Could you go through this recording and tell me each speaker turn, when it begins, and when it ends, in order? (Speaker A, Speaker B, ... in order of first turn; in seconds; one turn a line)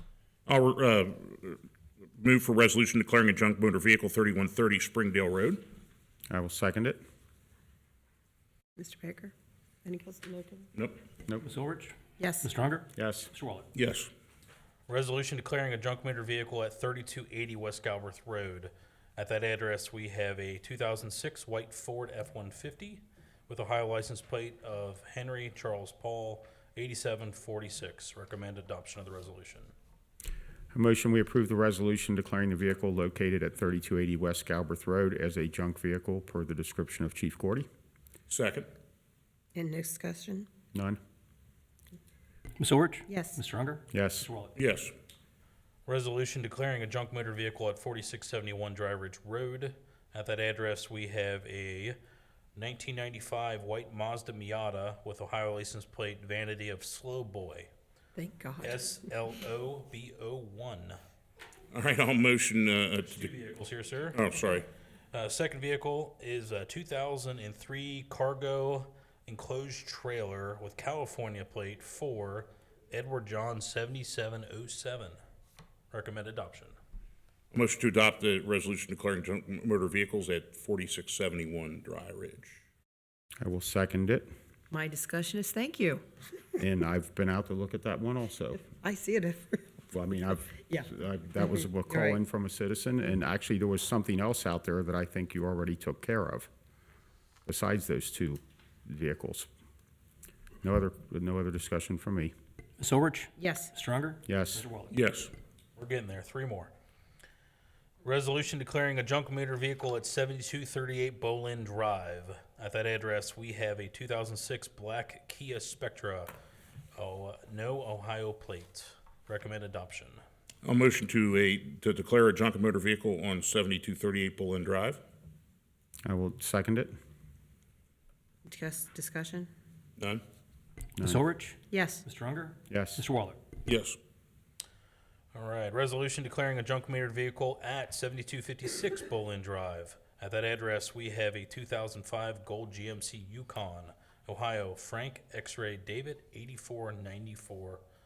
Speaker A: 0.5-1.6
Speaker A: 2.2-5.6
Speaker B: 6.3-7.0
Speaker C: 8.8-10.7
Speaker D: 11.4-13.7
Speaker C: 12.2-12.5
Speaker B: 12.9-13.3
Speaker A: 13.7-14.1
Speaker E: 14.9-29.7
Speaker B: 30.7-37.7
Speaker A: 38.3-38.7
Speaker C: 39.5-40.5
Speaker D: 42.6-44.5
Speaker C: 43.1-43.4
Speaker B: 43.9-44.3
Speaker A: 44.6-44.9
Speaker E: 45.9-52.0
Speaker E: 52.6-57.7
Speaker C: 58.2-58.8
Speaker E: 58.6-61.0
Speaker A: 61.7-63.3
Speaker E: 63.1-64.2
Speaker A: 64.1-64.7
Speaker E: 65.1-75.2
Speaker E: 75.9-76.8
Speaker A: 77.5-82.6
Speaker B: 83.4-84.3
Speaker C: 84.7-86.0
Speaker B: 86.6-88.7
Speaker C: 88.7-89.8
Speaker B: 89.9-96.5
Speaker C: 90.6-92.2
Speaker B: 97.5-99.5
Speaker B: 100.6-102.3
Speaker D: 102.8-104.9
Speaker C: 103.4-103.7
Speaker B: 104.3-104.7
Speaker A: 104.9-105.3
Speaker E: 105.8-106.7
Speaker E: 108.0-116.3
Speaker E: 117.0-120.2
Speaker A: 120.6-125.0
Speaker B: 126.1-126.9
Speaker C: 128.5-129.5
Speaker B: 131.0-131.2
Speaker D: 131.0-133.4
Speaker C: 131.7-132.1
Speaker B: 132.7-133.0
Speaker A: 133.7-134.0
Speaker E: 135.3-147.8